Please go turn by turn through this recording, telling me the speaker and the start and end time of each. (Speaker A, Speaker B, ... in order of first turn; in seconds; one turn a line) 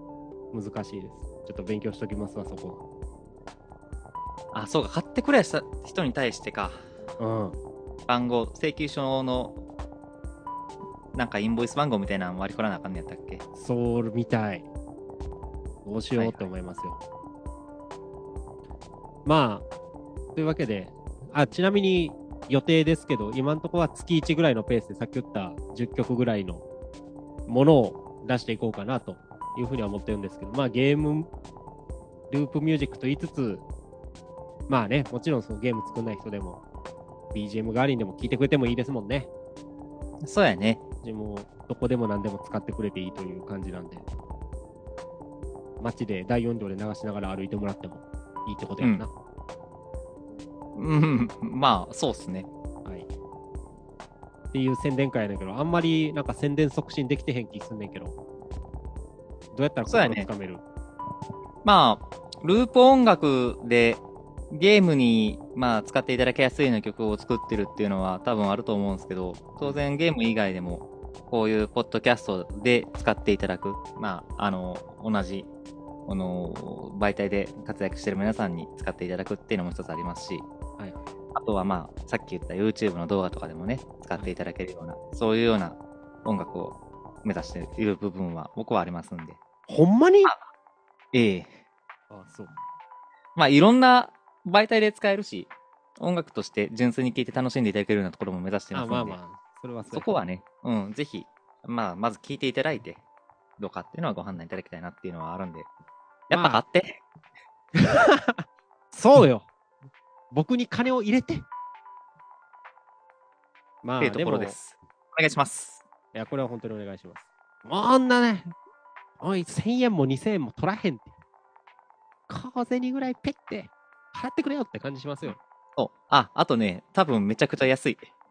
Speaker A: 0.5-2.8
Speaker B: 4.5-6.8
Speaker A: 7.2-7.6
Speaker B: 8.1-9.6
Speaker B: 11.1-13.4
Speaker A: 13.5-14.7
Speaker A: 15.8-17.0
Speaker B: 16.1-16.5
Speaker A: 19.2-19.6
Speaker A: 20.4-26.6
Speaker A: 27.5-31.3
Speaker A: 32.3-33.6
Speaker A: 34.7-36.6
Speaker A: 37.3-39.3
Speaker B: 40.2-40.8
Speaker A: 41.0-44.0
Speaker A: 45.8-49.1
Speaker B: 50.7-52.5
Speaker A: 54.5-58.2
Speaker A: 59.5-60.6
Speaker B: 59.9-60.3
Speaker B: 61.6-75.5
Speaker B: 76.1-80.5
Speaker B: 81.3-89.4
Speaker A: 89.7-90.3
Speaker B: 91.1-91.5
Speaker A: 92.1-92.5
Speaker B: 93.3-99.2
Speaker A: 98.7-100.1
Speaker B: 99.9-103.0
Speaker B: 103.6-105.7
Speaker B: 106.3-107.0
Speaker A: 106.3-106.6
Speaker A: 107.8-109.5
Speaker A: 110.3-111.5
Speaker A: 113.8-114.5
Speaker B: 114.0-115.8
Speaker A: 116.1-118.5
Speaker A: 119.2-121.1
Speaker A: 122.3-125.4
Speaker B: 125.2-128.1